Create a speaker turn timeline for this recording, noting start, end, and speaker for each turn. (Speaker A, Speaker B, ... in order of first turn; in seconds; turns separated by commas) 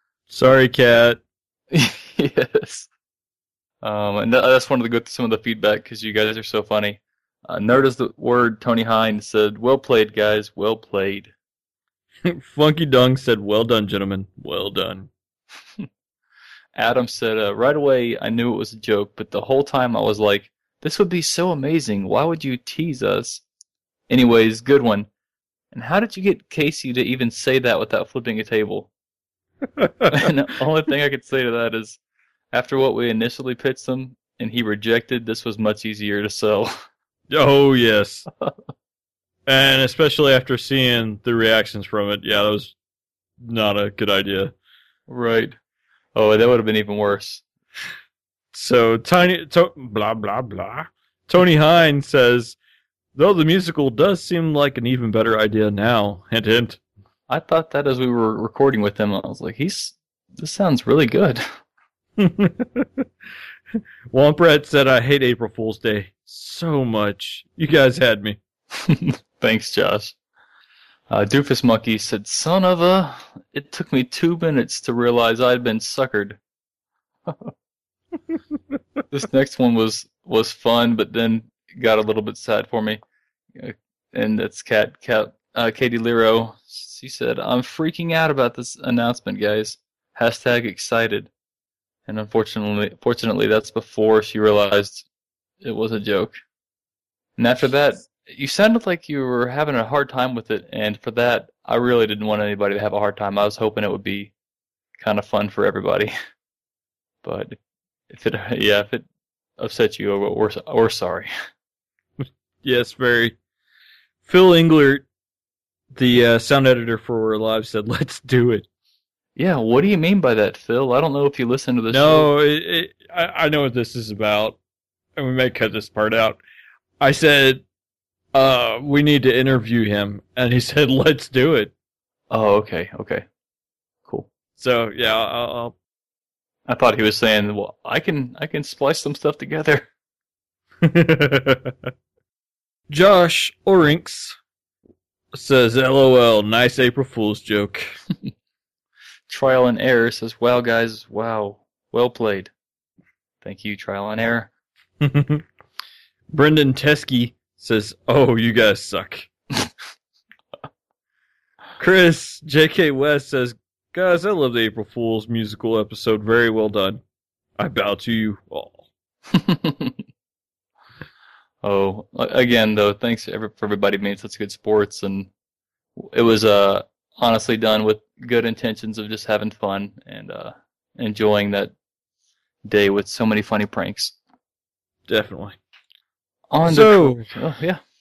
Speaker A: 0.3-1.2, Speaker B: 1.7-2.9, Speaker B: 3.8-11.3, Speaker A: 12.2-15.1, Speaker B: 16.8-23.4, Speaker B: 24.1-25.1, Speaker B: 25.7-28.9, Speaker A: 29.8-30.1, Speaker B: 30.1-32.0, Speaker B: 32.5-36.8, Speaker A: 37.3-38.3, Speaker A: 39.5-42.8, Speaker A: 43.4-44.5, Speaker B: 45.1-45.6, Speaker B: 46.1-47.4, Speaker A: 48.5-52.6, Speaker A: 53.1-56.8, Speaker B: 57.3-61.4, Speaker A: 62.2-63.1, Speaker A: 64.1-68.4, Speaker B: 68.7-70.2, Speaker B: 71.1-76.4, Speaker B: 77.2-77.5, Speaker B: 79.1-83.0, Speaker B: 83.5-91.3, Speaker B: 92.1-95.1, Speaker B: 95.6-96.4, Speaker B: 97.4-104.3, Speaker B: 105.0-106.1, Speaker B: 107.2-107.6, Speaker B: 108.1-109.0, Speaker B: 109.6-111.3, Speaker A: 112.2-113.4, Speaker A: 114.2-115.1, Speaker A: 115.9-118.7, Speaker B: 119.4-122.3, Speaker A: 121.9-124.6, Speaker A: 125.2-126.4, Speaker A: 127.0-127.6, Speaker A: 128.3-131.7, Speaker B: 132.3-133.2, Speaker A: 134.6-135.7, Speaker B: 136.7-139.9, Speaker A: 140.8-141.7, Speaker A: 142.9-144.4, Speaker A: 145.3-147.9, Speaker B: 149.3-152.5, Speaker B: 153.4-154.5, Speaker A: 155.0-155.4, Speaker A: 156.3-159.3, Speaker A: 161.8-167.0, Speaker A: 167.6-168.8, Speaker B: 169.3-170.0, Speaker B: 171.6-175.3, Speaker B: 175.9-181.7, Speaker B: 182.6-184.1, Speaker A: 185.1-185.6, Speaker B: 186.5-187.8, Speaker A: 186.6-187.3